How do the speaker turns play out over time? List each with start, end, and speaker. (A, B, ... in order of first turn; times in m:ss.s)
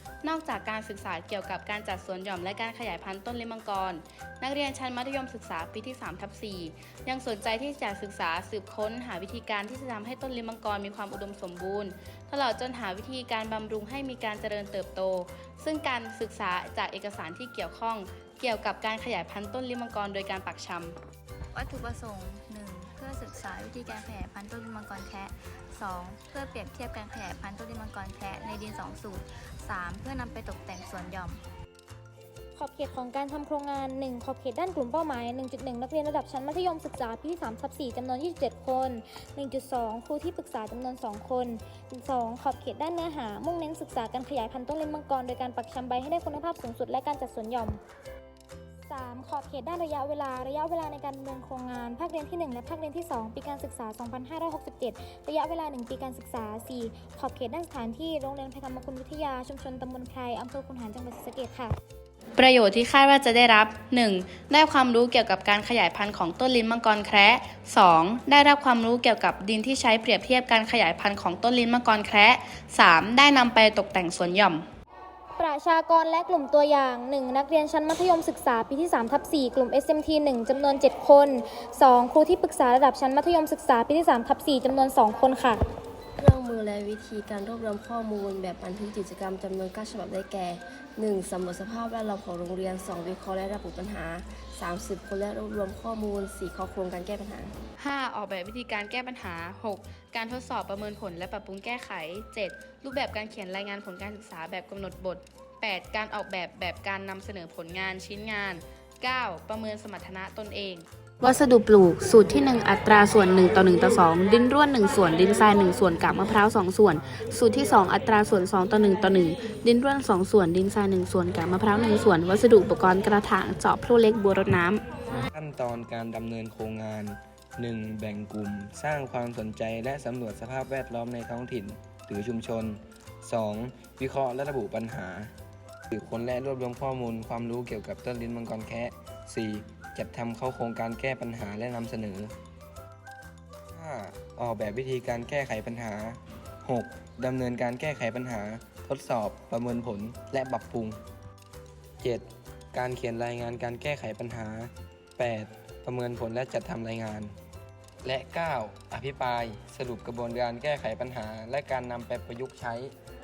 0:00.2-0:21.0 A
0:21.5-0:31.4 B
0:32.6-0:47.8 C
0:48.9-1:01.8 C
1:02.4-1:14.7 A
1:15.4-1:25.6 C
1:26.2-1:37.5 D
1:37.8-2:04.8 A
2:05.2-2:15.3 E
2:15.9-2:22.3 E
2:23.7-2:31.0 E
2:32.0-2:37.3 E
2:38.0-2:42.9 E